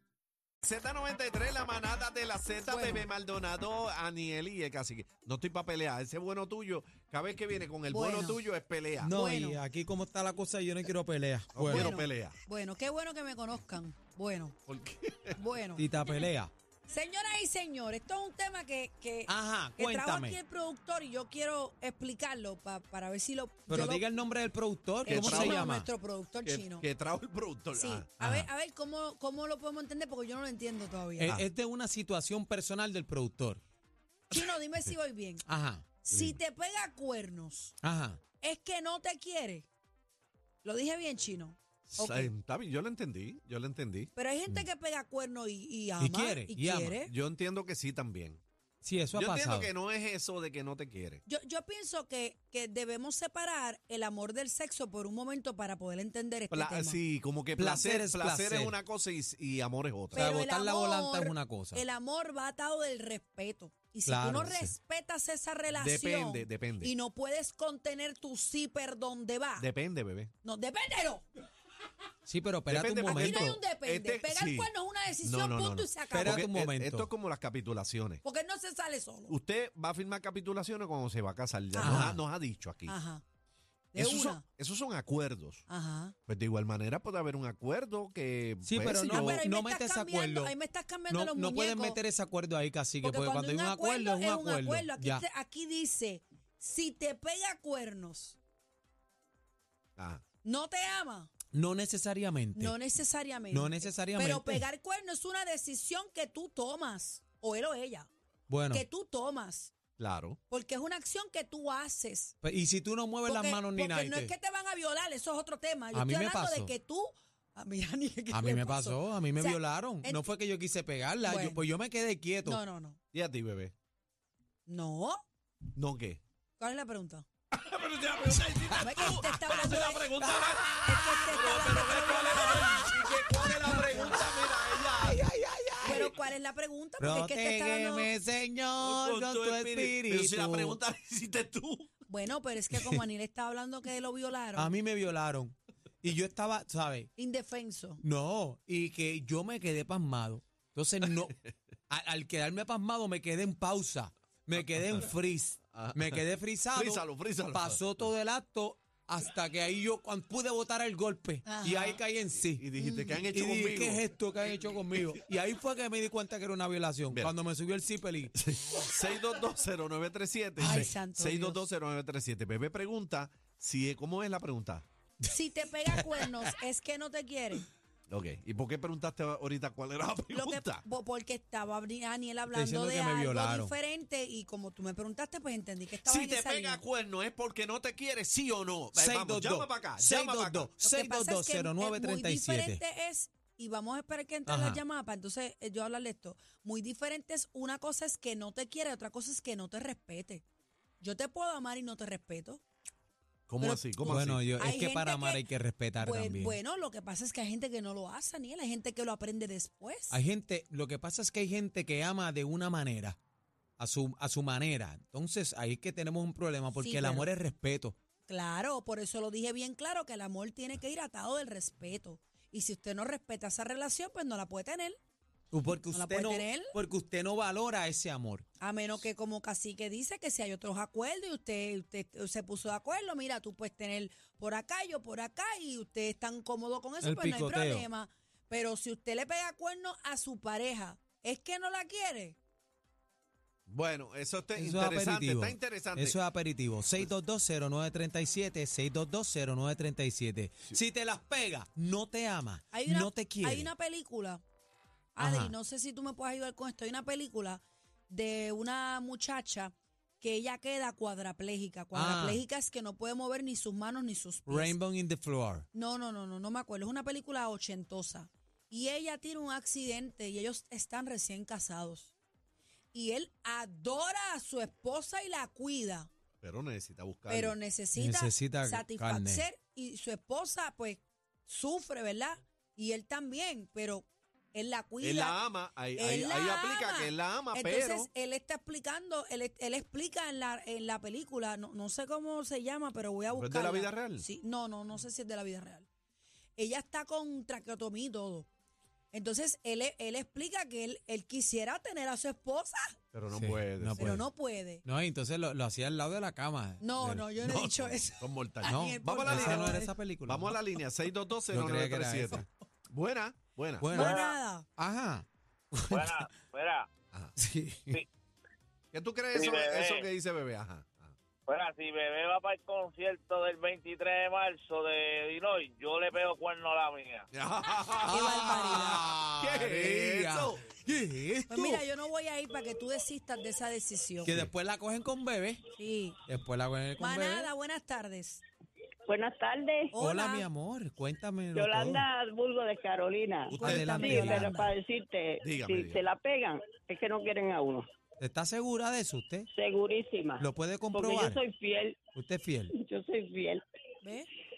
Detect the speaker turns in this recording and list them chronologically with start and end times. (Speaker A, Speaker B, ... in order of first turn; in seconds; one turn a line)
Speaker A: 0.6-9.1
Speaker B: 2.6-3.0
Speaker B: 7.9-8.4
Speaker B: 9.0-9.6
Speaker C: 9.0-11.9
Speaker A: 11.5-12.4
Speaker B: 11.7-14.6
Speaker A: 14.7-15.4
Speaker B: 15.4-15.9
Speaker C: 15.8-16.5
Speaker B: 16.9-24.1
Speaker C: 19.3-20.4
Speaker C: 23.7-25.9
Speaker B: 25.1-26.9
Speaker A: 25.1-25.6
Speaker A: 26.4-28.1
Speaker B: 27.7-31.4
Speaker C: 28.2-28.5
Speaker C: 31.2-33.6
Speaker B: 34.3-35.4
Speaker C: 35.5-35.8
Speaker B: 36.0-37.8
Speaker A: 36.1-36.4
Speaker C: 37.8-38.2
Speaker B: 38.4-39.7
Speaker B: 40.6-42.3
Speaker A: 41.9-44.1
Speaker B: 44.1-47.1
Speaker C: 46.0-47.0
Speaker A: 47.1-48.4
Speaker C: 48.8-49.7
Speaker A: 49.1-51.2
Speaker B: 51.3-57.0
Speaker A: 56.5-60.3
Speaker C: 57.6-58.8
Speaker B: 60.1-69.7
Speaker C: 60.1-61.8
Speaker C: 64.1-64.7
Speaker A: 65.8-66.9
Speaker A: 69.6-70.3
Speaker B: 70.4-71.2
Speaker C: 72.3-73.5
Speaker A: 72.7-78.2
Speaker B: 73.1-76.4
Speaker C: 76.1-77.1
Speaker B: 78.2-79.4
Speaker A: 79.3-83.0
Speaker B: 81.7-82.1
Speaker C: 81.8-82.2
Speaker B: 82.9-83.2
Speaker B: 83.9-84.4
Speaker A: 84.0-85.7
Speaker B: 85.7-86.2
Speaker A: 86.3-89.4
Speaker C: 88.7-90.5
Speaker B: 88.9-92.0
Speaker C: 91.1-95.2
Speaker B: 93.0-98.4
Speaker A: 100.0-100.2
Speaker B: 100.4-101.3
Speaker C: 101.5-102.8
Speaker B: 102.6-108.1
Speaker C: 103.5-104.7
Speaker C: 108.5-108.8
Speaker B: 108.7-109.7
Speaker A: 110.0-110.4
Speaker B: 110.5-112.3
Speaker C: 112.4-114.3
Speaker B: 113.2-120.3
Speaker C: 115.9-116.7
Speaker C: 118.3-122.6
Speaker B: 121.2-121.7
Speaker B: 122.4-123.0
Speaker A: 123.1-123.7
Speaker B: 124.7-125.2
Speaker A: 125.8-126.2
Speaker B: 126.6-127.2
Speaker A: 127.5-135.2
Speaker B: 128.8-130.1
Speaker C: 130.2-131.1
Speaker B: 130.8-132.9
Speaker C: 132.5-134.2
Speaker C: 134.8-136.1
Speaker B: 135.8-138.1
Speaker A: 135.8-136.1
Speaker C: 137.0-140.8
Speaker A: 138.8-141.9
Speaker B: 142.1-144.7
Speaker C: 144.6-147.1
Speaker B: 147.2-148.0
Speaker C: 148.0-151.3
Speaker C: 151.9-162.7
Speaker A: 155.7-156.2
Speaker A: 156.7-157.8
Speaker B: 161.4-162.0
Speaker A: 162.6-164.0
Speaker B: 162.8-163.2
Speaker C: 163.3-168.3
Speaker A: 168.4-174.9
Speaker B: 170.6-171.6
Speaker C: 170.6-170.9
Speaker B: 175.3-177.7
Speaker A: 178.1-180.8
Speaker B: 180.3-186.8
Speaker C: 182.5-183.7
Speaker A: 186.0-190.7
Speaker C: 188.9-192.8
Speaker B: 190.8-200.4
Speaker C: 194.5-194.8
Speaker B: 201.0-202.6
Speaker A: 203.5-204.5
Speaker B: 203.6-205.4
Speaker C: 204.1-206.6
Speaker B: 206.0-210.2
Speaker C: 210.1-213.2
Speaker C: 213.8-218.0
Speaker B: 216.8-217.3
Speaker B: 218.3-225.0
Speaker C: 225.5-228.4
Speaker B: 225.9-226.8
Speaker B: 228.6-242.4
Speaker C: 237.0-237.9
Speaker A: 243.7-246.2
Speaker C: 244.6-253.7
Speaker B: 252.7-254.4
Speaker B: 255.2-264.8
Speaker C: 255.2-255.6
Speaker C: 261.9-262.4
Speaker C: 264.5-265.6
Speaker B: 265.7-272.1
Speaker B: 272.9-276.1
Speaker A: 276.4-277.6
Speaker B: 277.3-285.4
Speaker C: 278.0-279.4
Speaker A: 285.0-288.1
Speaker B: 285.9-295.9
Speaker A: 293.3-294.3
Speaker B: 296.6-298.5
Speaker B: 299.1-303.0
Speaker A: 303.1-304.2
Speaker C: 303.3-304.3
Speaker B: 304.0-304.8
Speaker C: 304.8-306.9
Speaker B: 306.8-309.9
Speaker A: 307.0-313.9
Speaker C: 308.7-310.6
Speaker C: 311.5-312.5
Speaker C: 313.8-314.2
Speaker B: 313.9-314.7
Speaker D: 314.0-314.4
Speaker C: 314.8-316.4
Speaker D: 315.9-316.9
Speaker C: 317.4-318.0
Speaker A: 318.9-321.1
Speaker D: 319.3-320.1
Speaker D: 321.5-327.3
Speaker A: 327.3-330.7
Speaker C: 328.1-331.8
Speaker B: 328.1-329.1
Speaker B: 331.5-334.4
Speaker C: 334.2-335.6
Speaker B: 335.8-336.2
Speaker C: 336.3-337.5
Speaker B: 337.0-338.4
Speaker E: 339.1-339.9
Speaker B: 339.9-340.5
Speaker C: 340.0-342.1
Speaker E: 341.5-347.9
Speaker B: 343.5-344.7
Speaker C: 343.5-344.6
Speaker A: 345.4-346.0
Speaker C: 348.2-349.5
Speaker E: 349.5-352.0
Speaker C: 350.4-351.4
Speaker C: 352.2-352.7
Speaker E: 352.7-353.6
Speaker B: 354.0-354.3